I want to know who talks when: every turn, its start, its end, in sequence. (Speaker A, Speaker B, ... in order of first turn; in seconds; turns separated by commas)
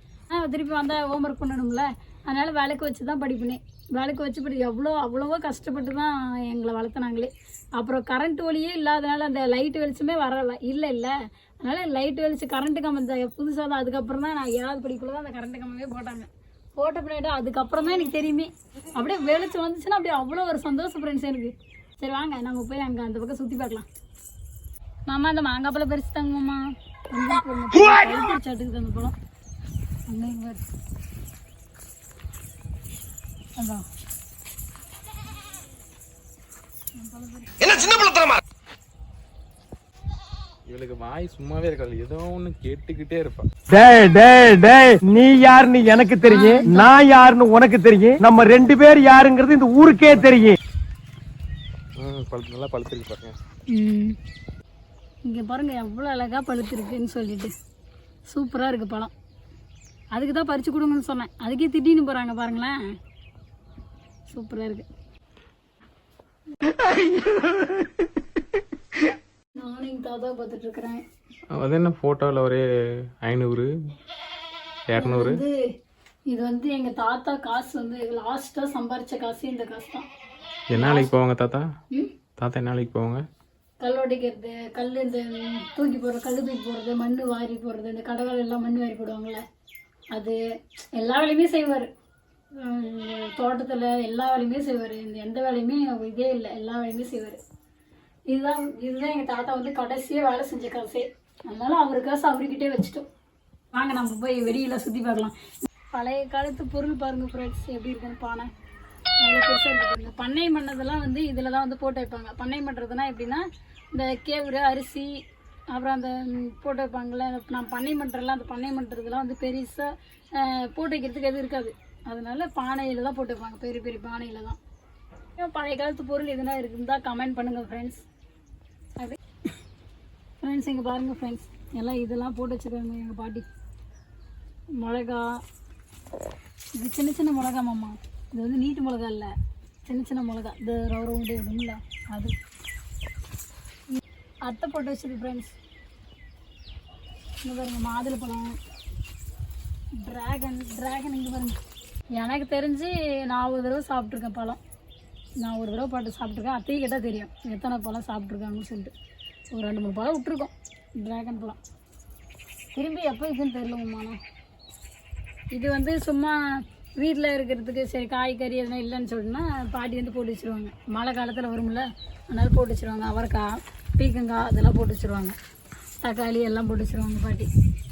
Speaker A: 0.3-23.9, Speaker A: 25.1-29.1, Speaker A: 30.1-30.6, Speaker A: 33.5-33.8, Speaker A: 37.0-38.3, Speaker B: 40.7-43.5, Speaker C: 43.7-50.6, Speaker A: 46.3-46.9, Speaker B: 49.9-50.4, Speaker B: 52.0-53.4, Speaker A: 53.7-54.2, Speaker A: 55.2-57.5, Speaker A: 58.3-59.1, Speaker A: 60.1-62.8, Speaker A: 64.3-64.8, Speaker A: 66.9-67.5, Speaker A: 69.5-71.0, Speaker B: 71.5-72.6, Speaker B: 73.2-73.7, Speaker B: 74.9-75.4, Speaker A: 75.0-75.7, Speaker A: 76.3-80.1, Speaker B: 80.7-81.7, Speaker A: 80.7-81.1, Speaker B: 82.4-83.2, Speaker A: 83.8-89.4, Speaker A: 90.1-90.4, Speaker A: 90.9-91.9, Speaker A: 92.5-97.4, Speaker A: 98.3-103.0, Speaker A: 103.7-108.5, Speaker A: 109.2-115.2, Speaker A: 115.7-124.6, Speaker A: 125.4-128.0, Speaker A: 130.4-133.4, Speaker A: 134.8-135.4, Speaker A: 136.8-139.3, Speaker A: 139.8-142.3, Speaker A: 143.9-145.5, Speaker A: 147.4-148.5, Speaker A: 150.0-151.6, Speaker A: 152.2-154.6, Speaker A: 155.4-158.9, Speaker A: 159.5-161.6, Speaker A: 162.7-164.2, Speaker A: 165.5-166.4, Speaker A: 167.0-175.3, Speaker A: 176.0-177.5